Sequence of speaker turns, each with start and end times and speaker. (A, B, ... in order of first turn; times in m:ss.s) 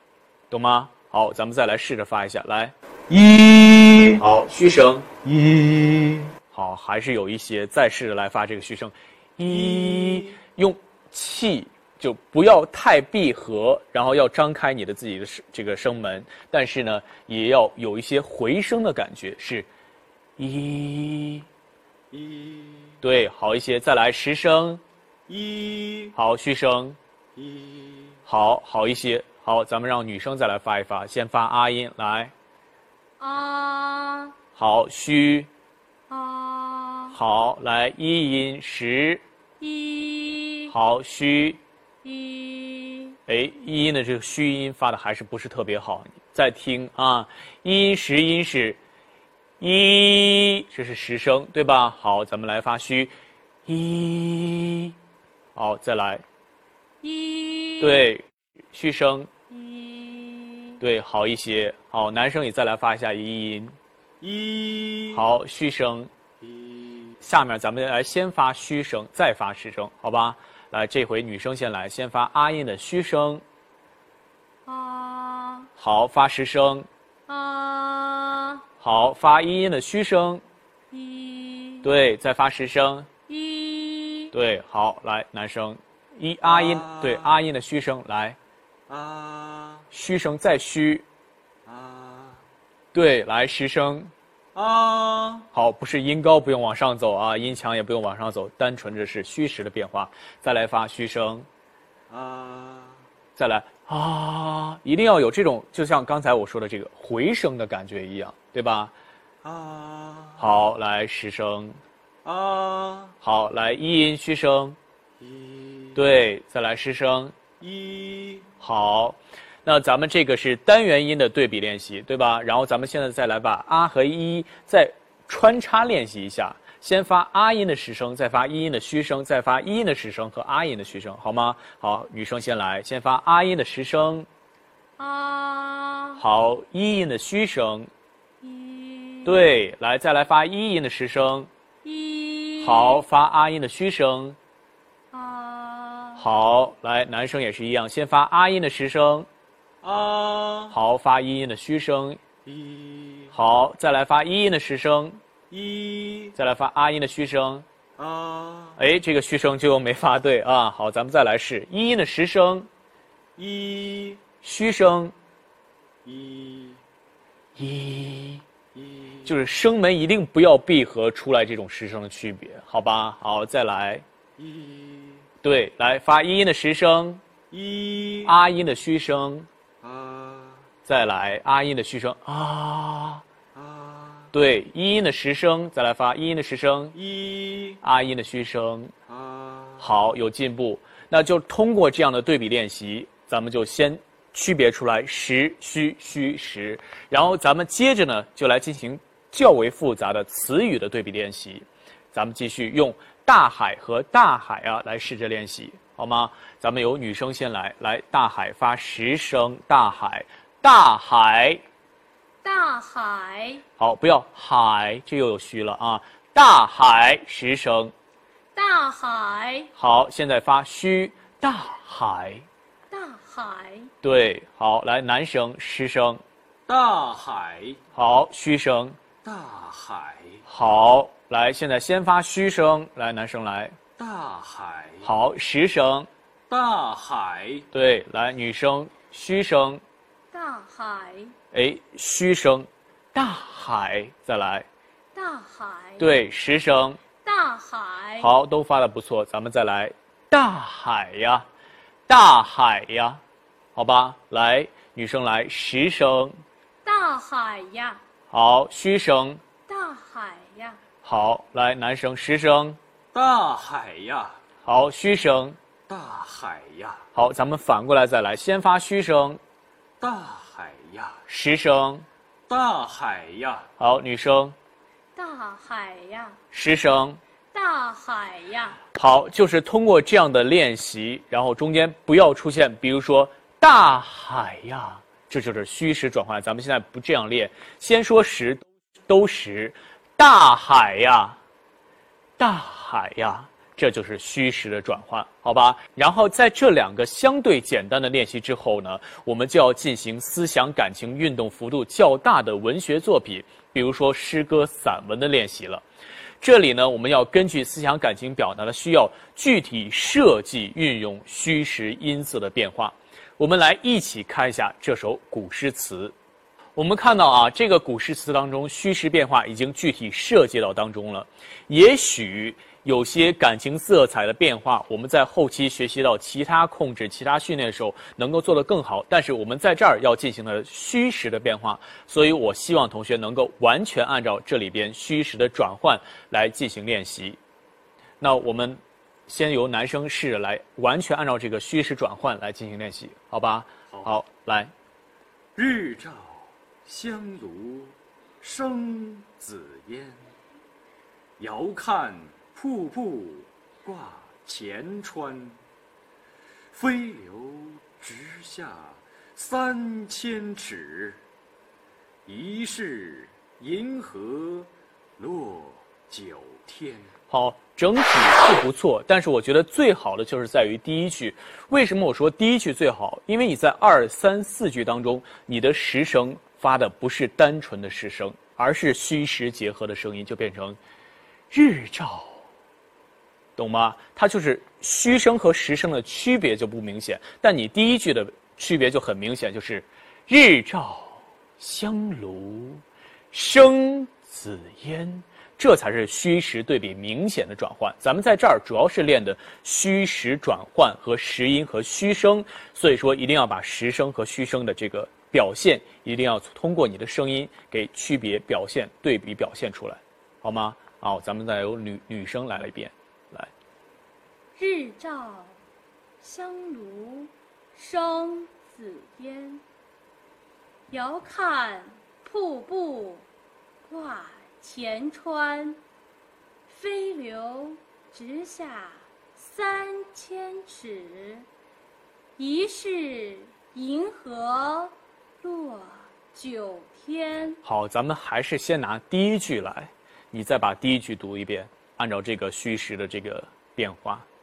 0:00.5-0:19.7 A
0:20.4-0:21.5 A
0:22.1-0:23.0 B
0:23.0-0:24.8 A
0:25.3-0:26.1 B
0:26.1-0:27.0 A
0:27.4-0:28.2 B
0:28.3-0:32.3 A
0:33.2-0:34.4 C
0:34.6-0:35.5 A
0:36.1-0:37.2 C
0:37.1-0:39.2 A
0:39.6-0:40.7 C
0:40.7-0:41.6 A
0:42.0-0:43.2 C
0:43.3-0:48.8 A
0:49.6-0:53.1 A
0:53.6-0:55.0 A
0:55.6-0:56.2 A
0:57.0-0:58.1 C
0:57.8-0:59.3 A
0:59.5-1:00.8 C
1:00.8-1:03.7 A
1:04.2-1:05.2 B
1:05.1-1:06.1 A
1:06.4-1:07.1 B
1:07.2-1:13.4 A
1:14.6-1:15.7 C
1:15.8-1:16.9 A
1:17.3-1:18.6 C
1:18.8-1:20.4 A
1:20.9-1:21.9 C
1:21.8-1:23.1 A
1:23.3-1:24.3 C
1:24.3-1:28.4 A
1:26.4-1:27.3 B
1:28.9-1:29.8 B
1:29.9-1:31.0 A
1:31.6-1:32.4 B
1:32.9-1:34.1 A
1:34.5-1:35.4 B
1:35.5-1:41.5 A
1:42.1-1:43.0 B
1:43.4-1:48.9 A
1:49.4-1:50.5 B
1:50.4-1:51.8 A
1:52.2-1:53.1 B
1:53.2-1:54.8 A
1:55.2-1:56.0 B
1:55.9-1:57.3 A
1:57.6-1:58.5 B
1:58.6-2:14.3 A
2:15.0-2:16.2 C
2:16.2-2:17.9 A
2:18.4-2:19.5 C
2:19.2-2:21.5 A
2:21.8-2:23.0 C
2:22.6-2:24.4 A
2:25.1-2:26.2 C
2:26.2-2:29.3 A
2:29.8-2:30.7 B
2:30.7-2:32.2 A
2:32.5-2:33.3 B
2:33.3-2:35.2 A
2:35.5-2:36.3 B
2:36.3-2:37.6 A
2:38.0-2:38.8 B
2:38.8-2:42.7 A
2:43.4-2:44.2 B
2:44.4-2:45.1 A
2:46.0-2:46.8 B
2:47.6-2:48.4 A
2:48.8-2:49.3 B
2:49.2-2:54.0 A
2:54.4-2:55.2 B
2:55.4-2:57.2 A
2:57.5-2:58.3 B
2:58.2-2:59.5 A
2:59.8-3:00.6 B
3:00.8-3:03.2 A
3:03.5-3:04.3 B
3:04.3-3:07.0 A
3:07.0-3:07.8 B
3:07.8-3:08.9 A
3:09.1-3:09.9 B
3:09.8-3:31.6 A
3:32.4-3:33.6 C
3:33.8-3:37.9 A
3:38.5-3:39.7 C
3:39.8-3:42.5 A
3:42.9-3:43.9 C
3:44.0-3:46.2 A
3:46.7-3:47.8 B
3:47.9-3:49.0 A
3:49.2-3:50.4 B
3:50.5-3:53.8 A
3:54.0-3:55.1 B
3:55.0-3:56.1 A
3:56.5-3:57.6 B
3:57.7-3:59.8 A
4:00.3-4:01.3 C
4:01.5-4:04.7 A
4:05.1-4:06.2 C
4:06.0-4:07.0 A
4:07.2-4:08.3 C
4:08.2-4:11.5 A
4:12.1-4:13.2 A
4:13.7-4:16.4 A
4:16.8-4:18.0 C
4:18.3-4:19.4 A
4:19.7-4:20.8 C
4:21.0-4:22.8 A
4:23.1-4:24.4 B
4:24.6-4:25.6 A
4:25.9-4:27.0 B
4:27.1-4:29.4 A
4:30.0-4:31.2 B
4:31.3-4:32.0 A
4:32.5-4:33.6 B
4:33.8-4:34.5 A
4:35.1-4:36.4 C
4:36.5-4:37.2 A
4:37.5-4:38.8 C
4:38.9-4:51.4 A
4:52.4-5:05.8 A
5:06.4-5:16.1 A
5:16.8-5:37.4 A
5:38.2-5:44.7 A
5:45.6-5:50.2 B
5:51.4-5:55.6 B
5:56.7-6:01.2 B
6:02.3-6:07.1 B
6:07.3-6:20.8 A
6:21.5-6:22.4 A
6:23.6-6:53.5 A
6:54.6-6:55.6 C
6:56.2-6:59.6 C
7:00.9-7:03.3 C
7:03.8-7:05.8 C
7:06.7-7:11.5 C
7:12.4-7:17.6 C
7:17.6-7:24.2 A